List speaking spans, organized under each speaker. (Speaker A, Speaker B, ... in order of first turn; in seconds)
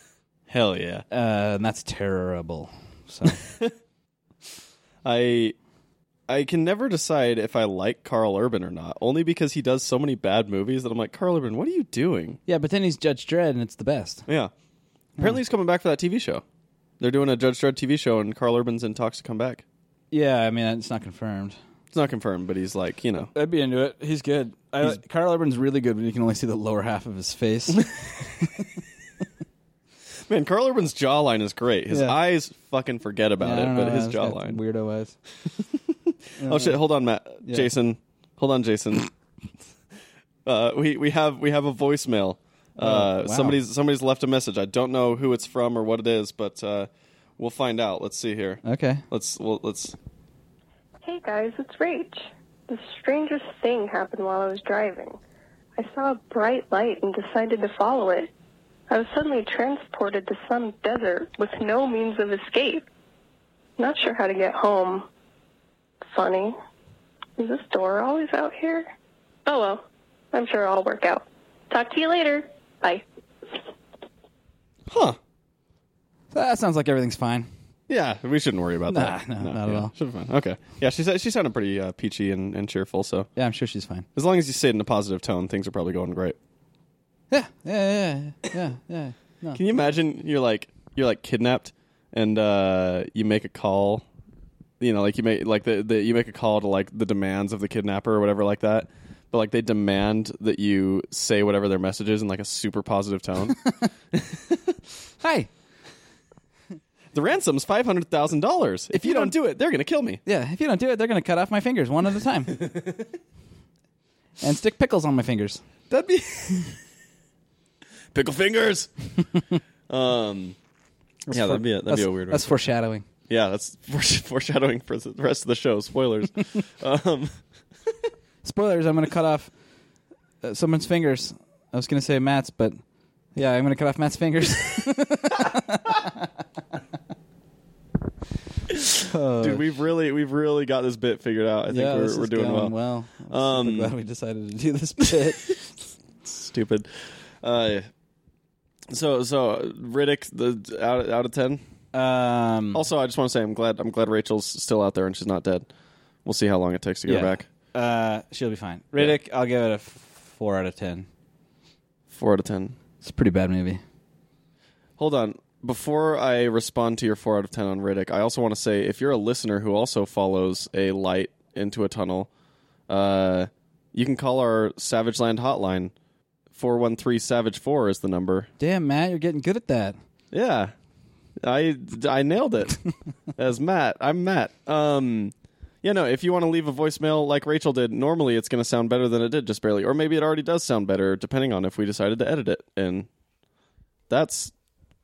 Speaker A: 0.5-1.0, 3.3-3.7, 5.0-5.5, 6.3-12.4, 14.3-14.5, 15.2-16.4, 17.0-19.6, 21.9-23.3, 27.8-28.5, 30.3-34.6, 35.5-39.1, 40.5-50.0, 74.9-75.2, 77.9-83.3, 84.1-86.3, 89.5-94.0, 94.8-103.6, 104.1-104.6, 107.1-110.2, 112.5-113.0, 115.9-116.8, 118.1-118.9, 119.9-120.5, 121.3-122.5, 123.3-127.4, 139.4-142.7, 143.3-143.9, 146.2-147.9, 148.9-151.6, 152.7-155.7, 156.2-157.4, 162.1-162.8, 165.0-172.3, 172.9-175.9, 176.5-178.5, 180.3-180.7, 181.4-182.8, 183.3-193.1, 194.1-194.5
Speaker B: 1.1-3.4, 12.5-14.2, 20.1-21.6, 23.3-28.6, 31.9-32.1, 33.4-35.1, 36.4-36.8, 37.4-37.7, 42.8-43.6, 48.6-49.0, 76.3-77.5, 78.9-79.9, 83.3-84.0, 87.3-89.6, 103.5-103.9, 105.2-105.5, 108.9-109.3, 110.2-112.6, 114.4-115.6, 121.3-123.0, 128.4-129.5, 130.4-132.8, 133.3-136.3, 139.0-139.6, 141.7-145.7, 151.9-152.8, 157.1-161.1, 163.0-163.8, 178.6-180.0
Speaker C: 51.0-55.2, 55.8-58.3, 58.9-62.8, 63.8-65.1, 66.1-66.5, 67.4-68.9, 69.5-69.8, 70.3-73.0